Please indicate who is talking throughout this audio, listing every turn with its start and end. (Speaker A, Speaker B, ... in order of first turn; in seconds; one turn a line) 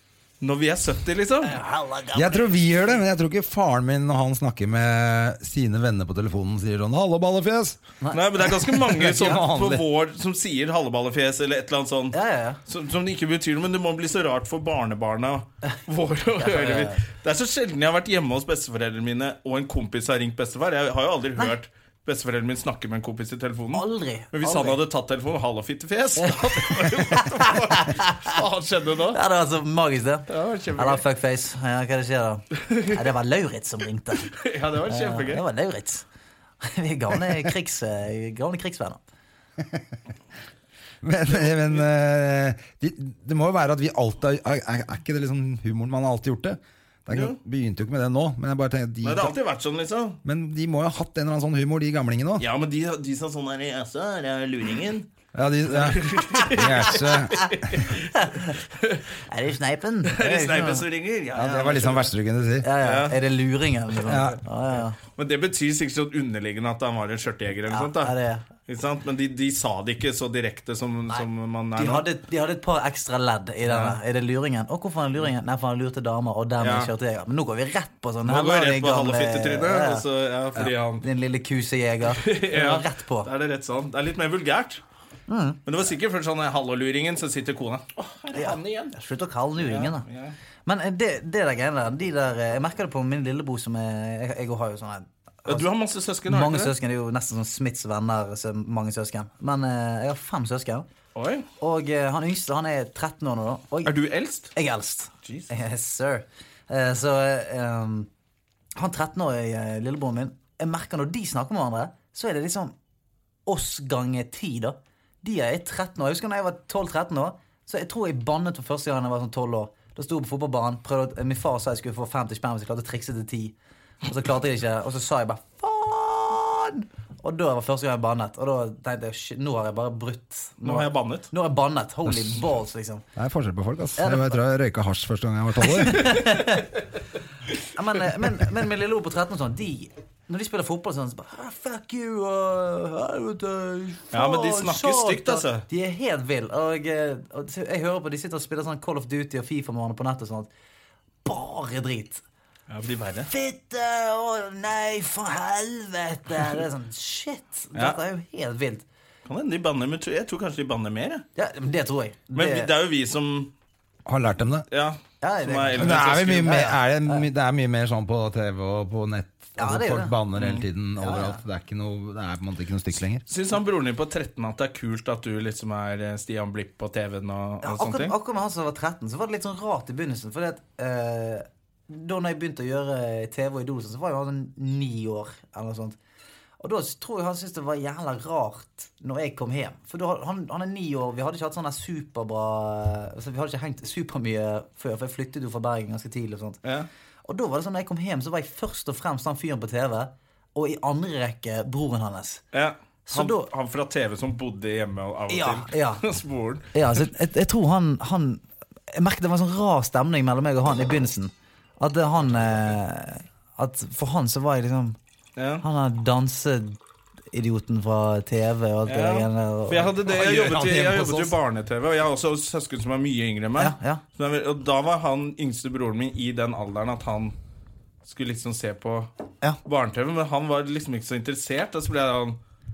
Speaker A: 0.4-1.5
Speaker B: 1.4-3.0
Speaker C: 2.1-7.8
Speaker B: 8.0-8.8
Speaker A: 8.1-29.2
Speaker C: 8.9-9.8
Speaker B: 12.1-12.6
Speaker B: 16.4-17.0
Speaker B: 23.7-24.8
Speaker B: 26.2-28.4
Speaker B: 29.1-36.0
Speaker A: 30.3-31.0
Speaker A: 32.6-33.0
Speaker A: 34.3-35.4
Speaker B: 36.6-39.0
Speaker C: 39.6-39.9
Speaker C: 41.0-49.3
Speaker A: 41.4-41.8
Speaker A: 47.1-47.4
Speaker A: 49.0-50.2
Speaker C: 50.2-52.5
Speaker A: 52.4-55.1
Speaker C: 55.3-57.8
Speaker A: 55.7-59.0
Speaker B: 58.2-58.5
Speaker B: 59.3-60.8
Speaker A: 60.0-62.1
Speaker C: 61.4-62.7
Speaker B: 62.6-65.0
Speaker A: 62.8-63.2
Speaker C: 64.0-64.4
Speaker A: 65.0-68.1
Speaker B: 67.7-68.5
Speaker A: 68.7-72.0
Speaker B: 71.1-80.0
Speaker A: 73.7-74.0
Speaker A: 76.6-76.9
Speaker A: 78.2-81.0
Speaker B: 80.6-83.3
Speaker A: 82.1-84.8
Speaker B: 85.3-85.6
Speaker A: 85.7-88.9
Speaker B: 88.3-90.0
Speaker A: 89.6-90.3
Speaker B: 90.7-95.7
Speaker A: 95.5-96.7
Speaker B: 96.3-100.8
Speaker A: 101.1-101.5
Speaker B: 101.6-103.9
Speaker A: 103.8-104.5
Speaker B: 104.5-108.1
Speaker A: 105.2-105.5
Speaker B: 108.8-112.7
Speaker B: 113.5-123.5
Speaker B: 124.0-133.0
Speaker A: 130.6-131.3
Speaker C: 133.2-136.2
Speaker B: 134.0-134.3
Speaker B: 135.6-136.7
Speaker B: 137.6-150.5
Speaker A: 144.1-145.6
Speaker B: 151.2-152.2
Speaker A: 152.7-153.3
Speaker B: 153.3-158.8
Speaker A: 157.7-158.0
Speaker A: 159.3-161.2
Speaker B: 161.3-162.7
Speaker A: 162.3-163.5
Speaker C: 164.1-164.7
Speaker A: 164.7-166.6
Speaker B: 165.2-167.2
Speaker C: 165.8-173.2
Speaker B: 169.6-170.2
Speaker A: 170.4-170.6
Speaker B: 171.0-171.4
Speaker A: 173.2-178.1
Speaker B: 177.6-186.0
Speaker B: 186.6-196.6
Speaker B: 197.2-202.4
Speaker A: 202.5-207.0
Speaker B: 203.1-203.5
Speaker B: 205.3-206.0
Speaker B: 206.7-215.0
Speaker A: 215.4-215.6
Speaker B: 215.6-216.8
Speaker B: 217.3-219.9
Speaker A: 218.8-227.3
Speaker C: 220.1-221.3
Speaker B: 223.6-224.0
Speaker A: 228.0-229.1
Speaker A: 229.6-232.4